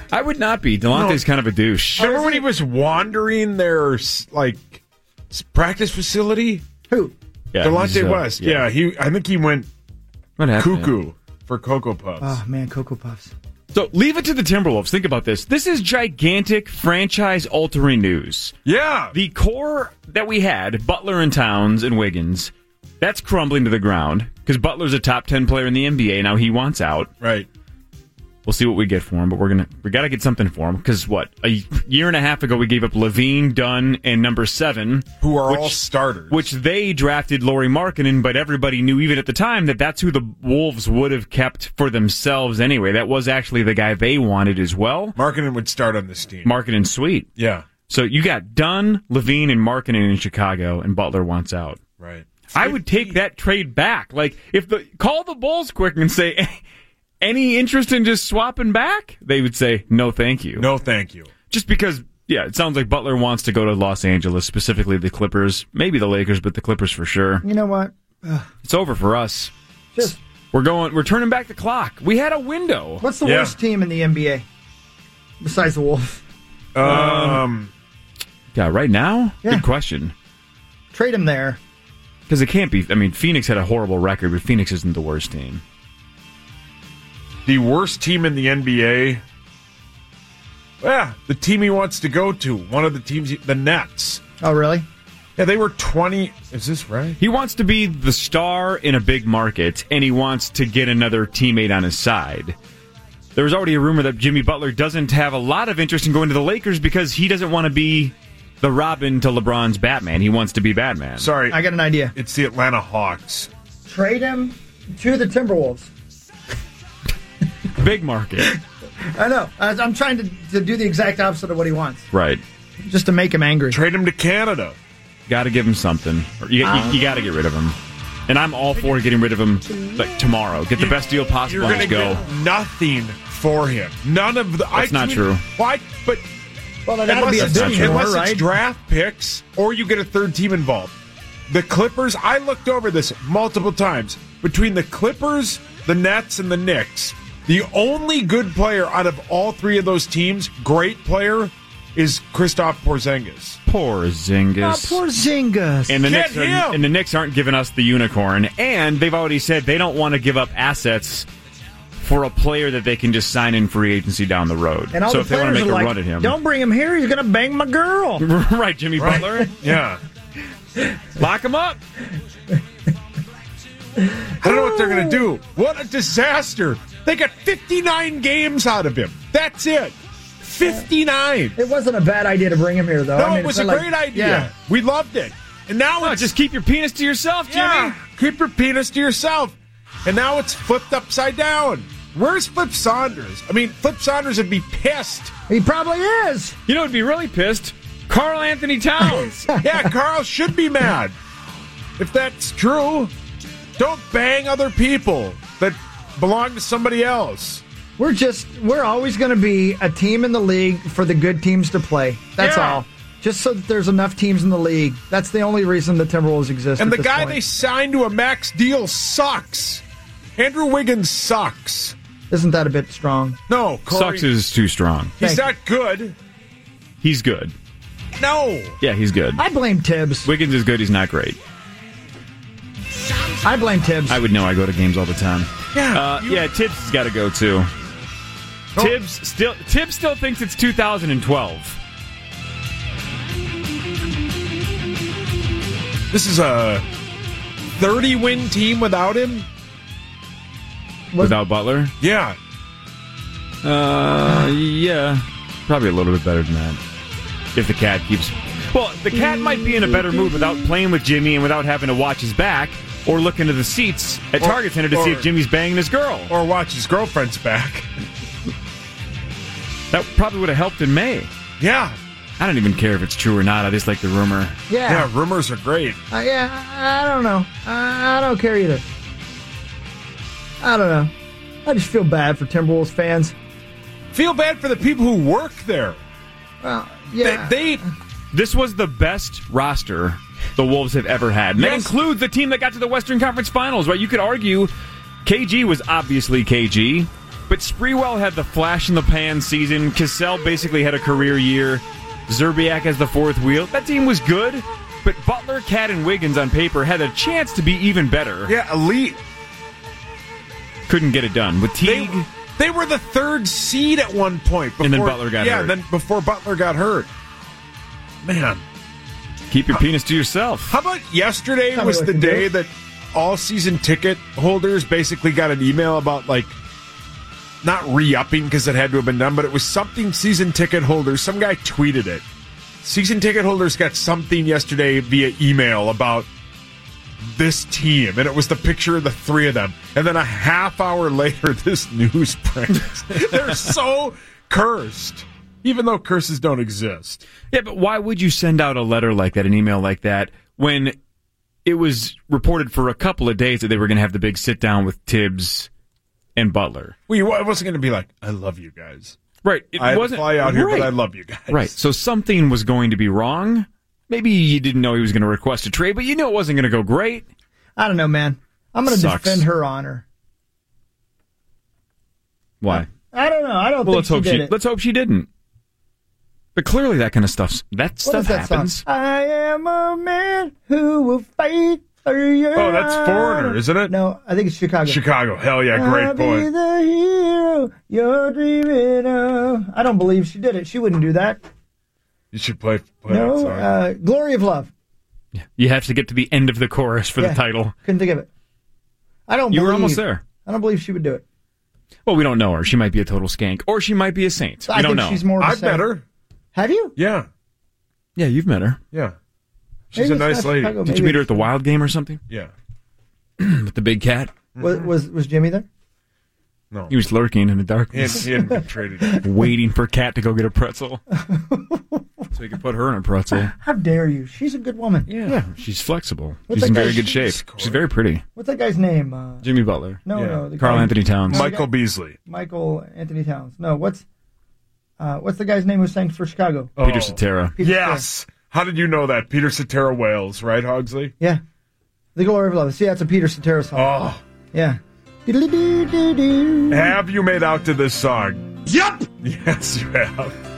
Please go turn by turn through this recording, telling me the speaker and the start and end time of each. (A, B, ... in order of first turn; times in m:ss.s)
0:00.1-0:02.1 A
0:00.9-0:01.2 B
0:02.0-0:04.8 B
0:02.0-0:02.5 C
0:05.3-0:06.6 B
0:06.9-0:07.2 C
0:07.5-0:08.7 A
0:07.6-0:09.7 B
0:10.4-0:10.9 A
0:10.6-0:12.4 B
0:12.2-0:13.3 C
0:13.7-0:18.6 A
0:18.6-0:19.1 B
0:19.1-0:27.1 A
0:27.2-0:27.5 B
0:28.5-0:35.8 A
0:35.2-0:36.5 B
0:36.3-0:45.2 A
0:45.2-0:46.5 B
0:46.4-0:47.3 A
0:47.4-0:47.6 B
0:47.9-0:51.8 A
0:52.0-0:53.2 B
0:52.5-0:56.6 A
0:57.2-1:00.7 A
1:00.6-1:01.3 B
1:01.5-1:07.4 A
1:07.4-1:08.5 C
1:08.6-1:09.5 A
1:10.0-1:13.1 A
1:13.0-1:14.5 C
1:13.2-1:13.6 B
1:15.4-1:16.2 C
1:16.8-1:17.7 B
1:16.8-1:17.4 A
1:18.5-1:20.1 A
1:20.9-1:21.6 C
1:22.3-1:25.6 A
1:27.5-1:29.2 B
1:30.8-1:34.2 B
1:34.4-1:34.9 C
1:35.4-1:37.2 B
1:37.2-1:42.6 A
1:43.4-1:51.3 A
1:51.2-1:51.6 B
1:51.5-1:52.1 C
1:52.2-1:53.5 B
1:53.9-1:55.9 C
1:57.8-1:58.6 A
1:58.4-2:02.1 C
2:02.1-2:02.4 A
2:02.8-2:03.8 C
2:03.7-2:04.8 B
2:05.3-2:07.8 A
2:06.6-2:07.3 C
2:08.3-2:12.2 A
2:10.8-2:16.3 B
2:14.7-2:15.4 A
2:16.9-2:18.5 C
2:17.1-2:20.9 B
2:17.3-2:18.1 A
2:21.5-2:33.6 B
2:33.7-2:35.0 A
2:34.6-2:36.0 C
2:35.9-2:41.3 A
2:36.0-2:36.8 B
2:42.0-2:46.4 A
2:44.9-2:48.3 C
2:48.2-2:49.5 A
2:49.0-2:50.0 B
2:51.2-2:51.8 A
2:54.0-2:55.3 C
2:54.4-3:01.6 B
3:01.6-3:04.5 C
3:03.2-3:06.3 B
3:06.0-3:08.0 A
3:07.5-3:15.3 B
3:15.5-3:16.6 C
3:16.7-3:19.5 A
3:19.0-3:19.9 C
3:19.6-3:21.2 B
3:22.0-3:23.1 B
3:23.8-3:27.6 B
3:28.0-3:37.4 C
3:32.4-3:32.8 B
3:36.8-3:39.8 B
3:40.4-3:42.0 B
3:42.3-3:43.4 C
3:43.5-3:44.3 B
3:43.9-3:45.2 A
3:45.2-3:46.2 B
3:45.2-3:45.4 C
3:47.0-3:47.5 A
3:48.2-3:48.8 B
3:48.8-3:49.4 A
3:49.4-3:50.3 C
3:50.2-3:51.4 A
3:53.4-3:54.2 C
3:54.1-3:57.7 A
3:55.7-3:56.5 B
3:58.8-4:01.8 A
4:06.1-4:06.8 B
4:07.8-4:09.5 B
4:11.1-4:11.4 C
4:11.2-4:11.9 A
4:12.0-4:12.4 B
4:13.6-4:16.8 A
4:17.6-4:26.3 A
4:19.1-4:20.7 C
4:24.4-4:25.3 B
4:26.3-4:27.9 B
4:29.9-4:31.3 A
4:31.6-4:32.0 B
4:32.4-4:34.6 A
4:34.7-4:35.1 C
4:34.9-4:36.0 B
4:36.1-4:38.9 C
4:40.6-4:41.1 C
4:41.6-4:43.4 C
4:44.1-4:46.0 B
4:46.6-4:47.8 C
4:47.2-4:47.8 B
4:48.3-4:54.7 A
4:51.6-4:51.9 B
4:55.2-5:08.5 A
5:08.5-5:09.2 B
5:10.9-5:12.3 A
5:11.8-5:17.1 B
5:14.8-5:15.7 A
5:18.2-5:18.6 B
5:19.5-5:20.8 A
5:20.7-5:26.6 B
5:21.7-5:22.5 C
5:27.6-5:32.2 B
5:32.8-5:36.3 B
5:37.2-5:47.2 B
5:47.5-5:51.0 A
5:51.6-5:55.7 A
5:56.4-5:57.0 A
5:57.1-5:59.2 B
5:59.4-6:00.9 A
5:59.8-6:01.7 B
6:01.5-6:07.3 A
6:07.8-6:10.0 C
6:08.9-6:09.5 A
6:12.6-6:12.9 A
6:12.7-6:14.5 C
6:13.8-6:15.3 A
6:16.6-6:18.8 A
6:18.0-6:25.0 C
6:22.6-6:23.9 B
6:24.9-6:26.5 B
6:25.7-6:31.4 C
6:32.3-6:33.7 B
6:33.1-6:34.7 C
6:35.4-6:37.7 A
6:37.2-6:38.3 C
6:39.3-6:41.2 C
6:39.5-6:40.2 A
6:42.1-6:45.2 A
6:44.7-6:45.9 C
6:45.4-6:46.0 B
6:46.5-6:47.0 C
6:47.0-6:47.3 B
6:48.2-6:48.8 A
6:49.9-6:50.8 B
6:49.9-6:51.5 C
6:50.8-6:52.2 A
6:53.4-6:54.3 A
6:54.6-6:54.9 B
6:54.6-6:55.7 C
6:56.9-6:58.3 A
6:57.9-6:59.2 B
6:59.2-7:01.0 A
7:01.1-7:02.1 C
7:02.3-7:03.5 A
7:03.3-7:05.1 C
7:05.1-7:08.2 A
7:06.5-7:07.3 C
7:06.7-7:07.9 B
7:08.4-7:09.4 C
7:09.4-7:10.0 A
7:10.0-7:11.7 C
7:10.1-7:10.5 B
7:10.6-7:11.5 A
7:11.3-7:12.2 B
7:12.3-7:14.0 C
7:15.0-7:16.7 C
7:16.8-7:21.1 B
7:16.8-7:17.6 A
7:17.6-7:18.0 C
7:22.2-7:24.0 C
7:23.8-7:24.2 B
7:24.5-7:27.0 C
7:26.7-7:28.4 B
7:28.7-7:29.1 C
7:29.2-7:30.3 B